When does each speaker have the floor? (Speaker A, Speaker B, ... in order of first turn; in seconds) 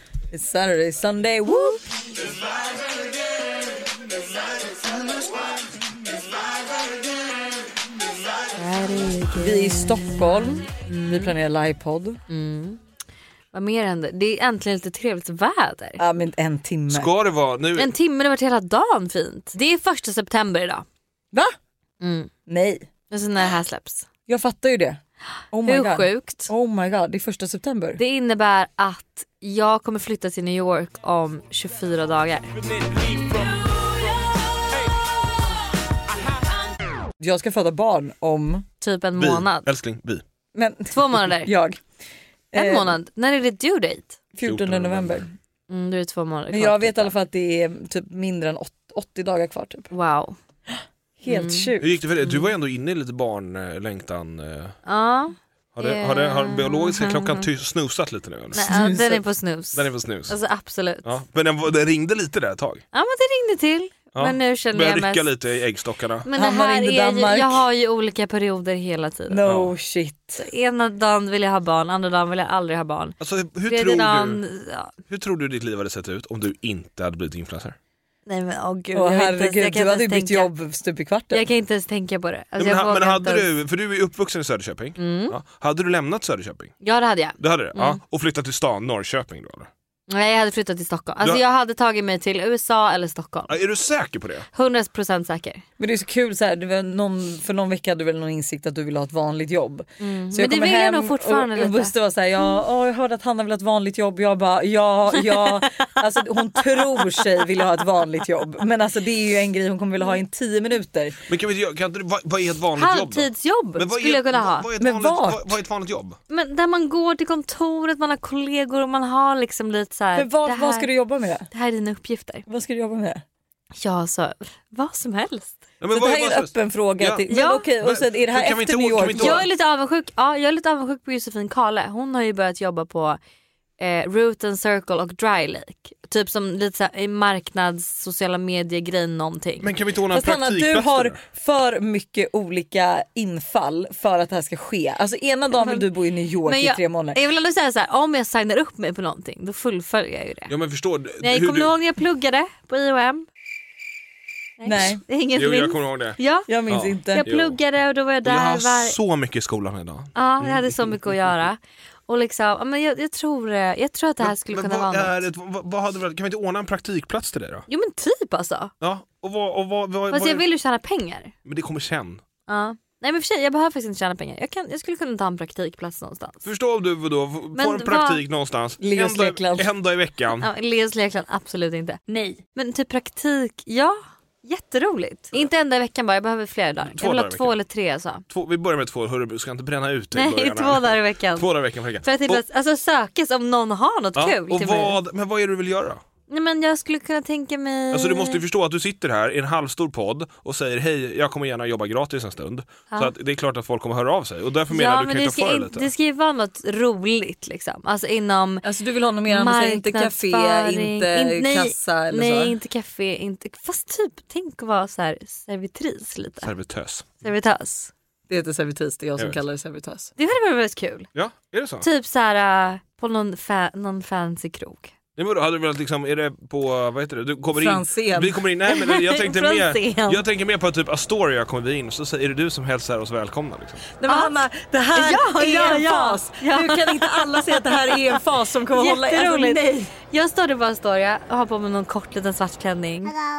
Speaker A: 0.3-1.8, 9.4-12.2, 16.0-17.1, 22.5-22.9, 24.3-25.0, 25.5-28.0, 37.2-38.6, 40.5-41.8, 42.5-43.0, 44.4-45.3, 46.5-49.9, 50.7-52.0, 58.6-59.2, 66.3-67.7, 69.3-70.4, 78.9-81.5, 95.8-111.2, 114.8-115.5, 120.2-121.5, 122.5-123.2, 125.9-129.5, 140.1-147.2, 154.7-155.0, 156.5-157.3, 178.8-179.7, 208.6-212.5, 218.3-220.1, 227.6-228.4, 234.0-239.9
Speaker B: 8.6-10.6, 12.3-12.8, 13.5-16.0, 17.8-20.9, 22.0-22.3, 23.1-24.1, 25.7-26.5, 28.0-32.5, 38.8-39.7, 40.9-41.5, 42.5-44.2, 45.7-47.1, 49.9-50.4, 51.3-52.5, 54.9-57.5, 58.5-61.1, 62.9-65.3, 66.2-69.6, 70.4-73.2, 73.7-75.0, 78.3-80.5, 81.3-83.5, 85.0-85.4, 86.8-88.0, 90.1-93.6, 94.5-95.6, 100.0-101.9, 112.7-114.7, 116.3-122.4, 123.8-125.6, 127.3-127.7, 129.1-133.2, 133.8-139.7, 145.5-145.8, 146.4-150.5, 151.2-153.3, 154.6-156.5, 157.1-159.0, 160.2-165.2, 167.7-168.7, 170.1-171.3, 172.5-176.4, 177.5-178.2, 180.4-188.2, 190.1-195.0, 196.3-198.4, 204.7-208.6, 209.3-216.5, 217.2-217.9, 220.2-221.1, 221.8-224.9, 228.7-230.2, 234.1-234.3, 234.9-243.2
Speaker C: 16.9-17.9, 39.2-40.2, 44.4-45.2, 51.8-54.7, 55.7-58.6, 59.7-60.4, 61.0-62.8, 64.1-66.3, 73.2-74.4, 75.1-77.8, 82.6-86.7, 87.4-89.7, 93.5-94.5, 111.3-116.2, 125.8-127.2, 127.8-129.5, 139.6-141.2, 150.5-151.7, 155.3-157.6, 158.2-161.4, 164.2-167.7, 168.8-170.5, 171.5-172.2, 176.4-180.5, 186.9-187.6, 188.3-192.4, 194.2-196.0, 197.9-205.9, 216.4-217.2, 221.2-221.9, 225.2-233.9